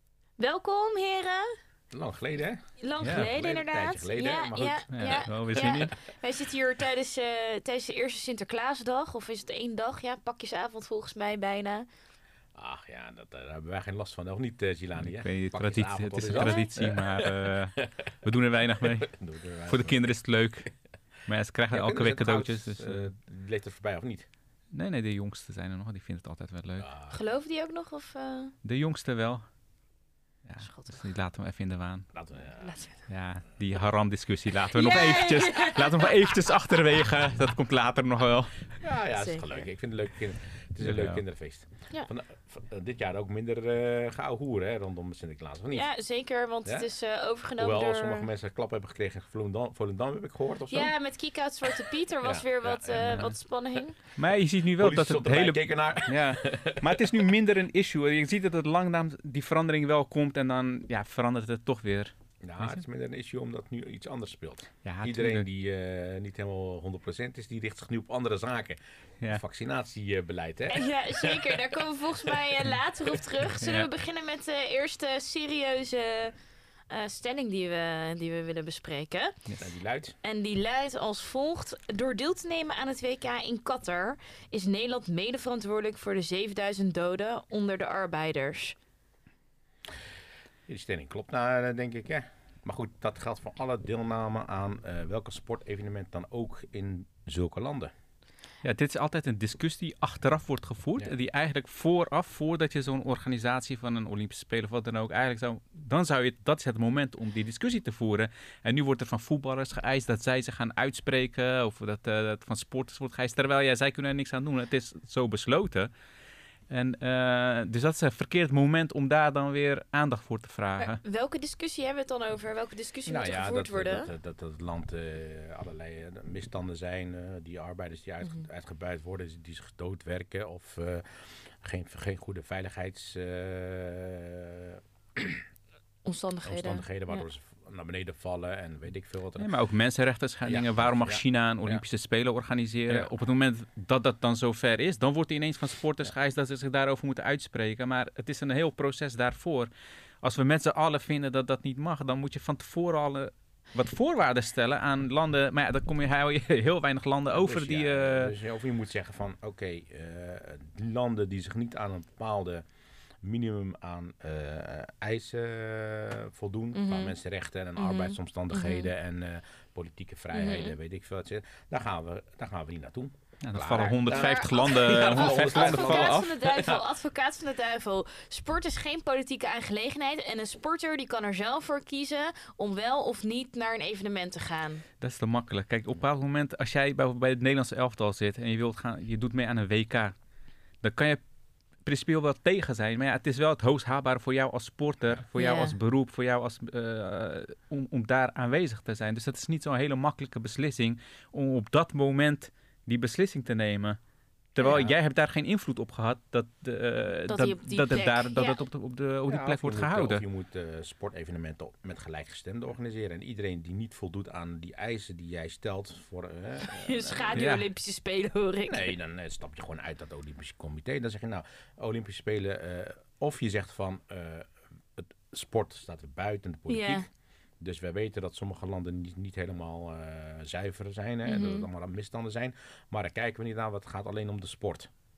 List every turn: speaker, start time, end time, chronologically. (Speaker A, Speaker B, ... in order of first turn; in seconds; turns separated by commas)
Speaker A: 0.4-1.5, Speaker B: 1.9-5.9, Speaker A: 2.8-11.9, Speaker C: 3.0-3.3, Speaker C: 4.9-5.9, Speaker B: 12.6-17.9, Speaker C: 15.0-20.7, Speaker A: 16.3-16.7, Speaker B: 18.9-20.0, Speaker C: 21.2-23.1, Speaker B: 21.7-24.3, Speaker C: 24.7-26.9, Speaker B: 26.8-27.2, Speaker A: 27.1-28.5, Speaker C: 28.6-29.4, Speaker C: 30.5-32.1, Speaker A: 30.6-31.0, Speaker B: 32.1-32.8, Speaker A: 32.6-33.0, Speaker C: 33.1-38.7, Speaker A: 34.7-36.2, Speaker B: 38.8-45.9, Speaker A: 39.1-39.7, Speaker C: 40.8-41.2, Speaker A: 45.7-48.3, Speaker B: 47.6-50.9, Speaker A: 50.7-54.0, Speaker B: 52.2-53.4, Speaker C: 54.1-62.8, Speaker B: 54.8-57.3, Speaker B: 62.4-72.6, Speaker C: 64.8-65.5, Speaker A: 70.7-76.3, Speaker A: 76.9-79.4, Speaker B: 79.6-80.2, Speaker A: 80.2-88.8, Speaker B: 90.7-97.9, Speaker C: 98.6-115.9, Speaker C: 116.7-121.0, Speaker A: 120.8-124.1, Speaker B: 123.1-135.4, Speaker A: 136.1-137.2, Speaker B: 136.4-139.5, Speaker C: 139.4-149.7, Speaker B: 140.4-141.8, Speaker C: 150.2-158.3, Speaker B: 157.3-162.6, Speaker B: 163.2-176.8, Speaker A: 166.7-167.2, Speaker A: 167.8-168.9, Speaker A: 170.3-170.8, Speaker C: 173.4-176.4, Speaker A: 174.1-184.8, Speaker C: 185.0-190.1, Speaker C: 190.8-191.2, Speaker C: 191.8-204.0, Speaker A: 195.4-195.8, Speaker C: 204.6-210.2, Speaker B: 204.7-205.0, Speaker A: 207.3-208.6, Speaker B: 209.3-217.6, Speaker A: 216.6-219.0, Speaker C: 217.3-217.6, Speaker B: 218.7-227.1, Speaker A: 226.7-227.1, Speaker B: 227.6-234.9, Speaker A: 231.3-231.7